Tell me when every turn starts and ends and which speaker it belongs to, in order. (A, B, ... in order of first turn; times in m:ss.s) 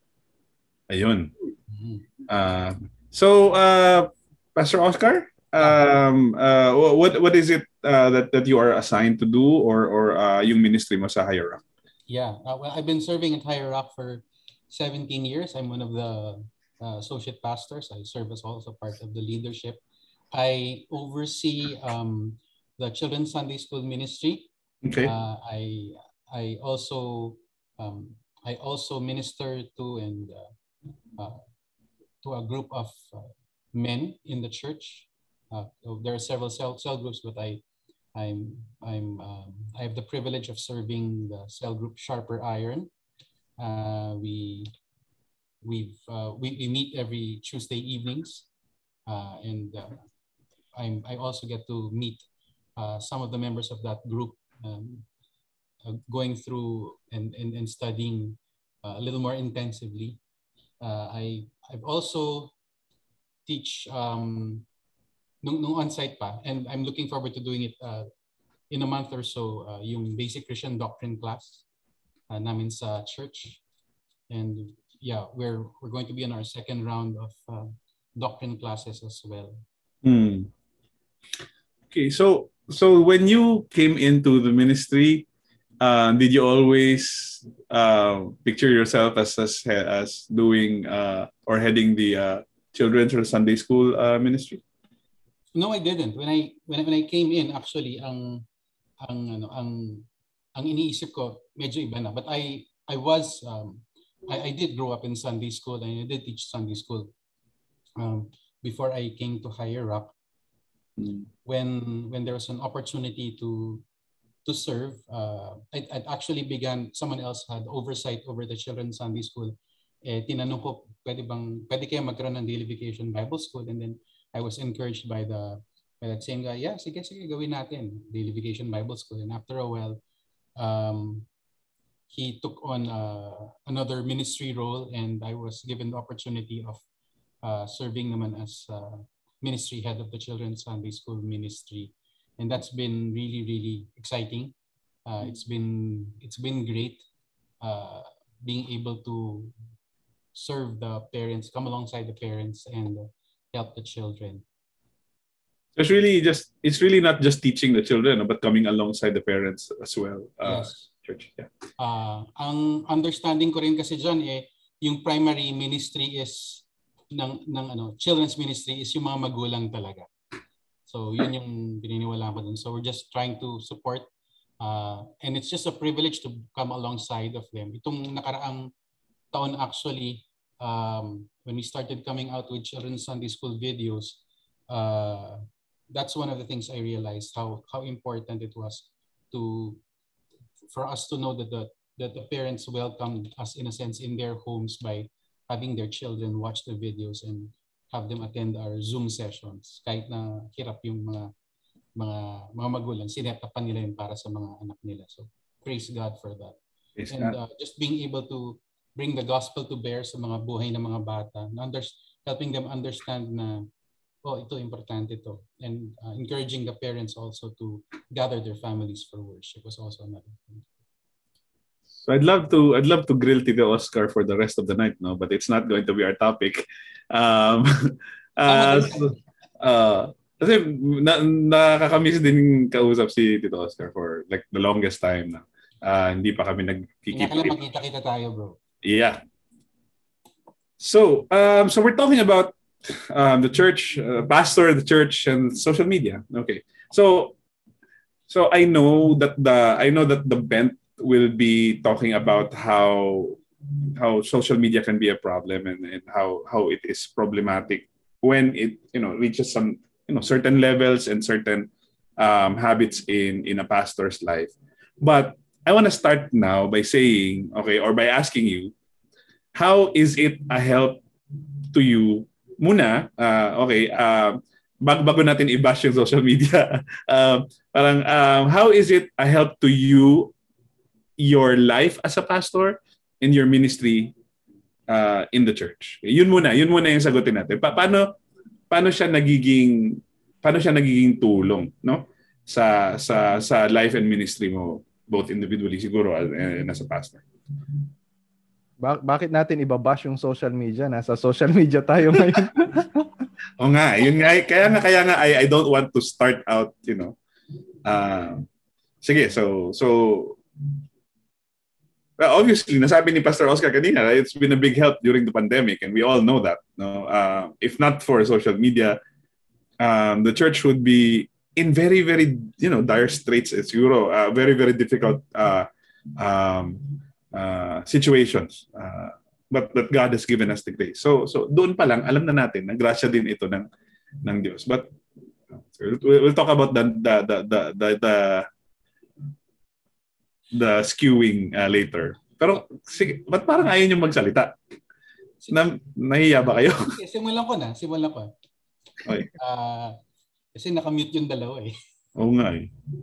0:00.9-0:01.3 A
0:01.7-0:02.0 B
0:02.3-0:11.6 A
0:05.6-0:05.8 B
0:12.1-0:19.8 B
0:20.3-0:24.5 B
0:24.8-0:25.1 A
0:25.0-0:30.5 B
0:32.2-0:37.6 B
0:38.1-0:42.9 B
0:43.6-0:44.7 B
0:45.6-0:48.4 B
0:49.1-0:50.0 B
0:50.8-0:52.2 B
0:52.8-0:55.0 B
0:55.8-1:00.2 B
1:00.8-1:02.5 B
1:03.4-1:04.6 B
1:05.4-1:08.1 B
1:08.7-1:11.6 B
1:12.3-1:13.6 B
1:14.3-1:19.6 B
1:20.0-1:20.5 A
1:21.9-1:25.2 A
1:25.8-1:34.6 A
1:35.6-1:38.4 B
1:39.0-1:47.1 B
1:48.0-1:50.1 B
1:51.0-1:51.2 A
1:51.4-1:53.8 B
1:54.4-1:59.5 B
2:00.0-2:10.0 B
2:10.6-2:11.2 B
2:12.1-2:16.8 B
2:17.4-2:24.5 B
2:25.1-2:27.0 B
2:27.6-2:29.5 B
2:30.3-2:34.4 B
2:35.8-2:41.5 A
2:40.4-2:40.8 B
2:41.8-2:50.1 B
2:50.9-2:54.0 B
2:54.6-2:58.7 B
2:59.3-3:04.2 B
3:04.7-3:09.8 B
3:10.7-3:21.3 B
3:22.0-3:26.6 B
3:27.0-3:27.4 A
3:27.1-3:33.7 B
3:34.2-3:40.6 B
3:42.0-3:57.6 A
3:48.5-3:49.1 B
3:57.1-3:58.6 B
3:58.8-3:59.2 A
4:00.8-4:07.3 A
4:08.3-4:13.4 A
4:13.9-4:28.7 A
4:29.5-4:31.0 A
4:31.7-4:40.3 A
4:41.2-4:44.1 A
4:44.9-4:48.2 A
4:48.7-4:57.2 A
4:58.8-5:03.1 C
5:03.6-5:07.2 A
5:07.8-5:08.5 A
5:09.0-5:10.4 A
5:12.2-5:19.0 A
5:19.8-5:33.7 A
5:34.2-5:34.9 A
5:35.6-5:38.4 A
5:40.5-5:44.5 A
5:45.5-5:46.9 A
5:46.9-5:48.3 B
5:49.0-5:49.3 A
5:49.3-5:50.0 B
5:50.5-5:51.7 B
5:52.2-5:52.7 A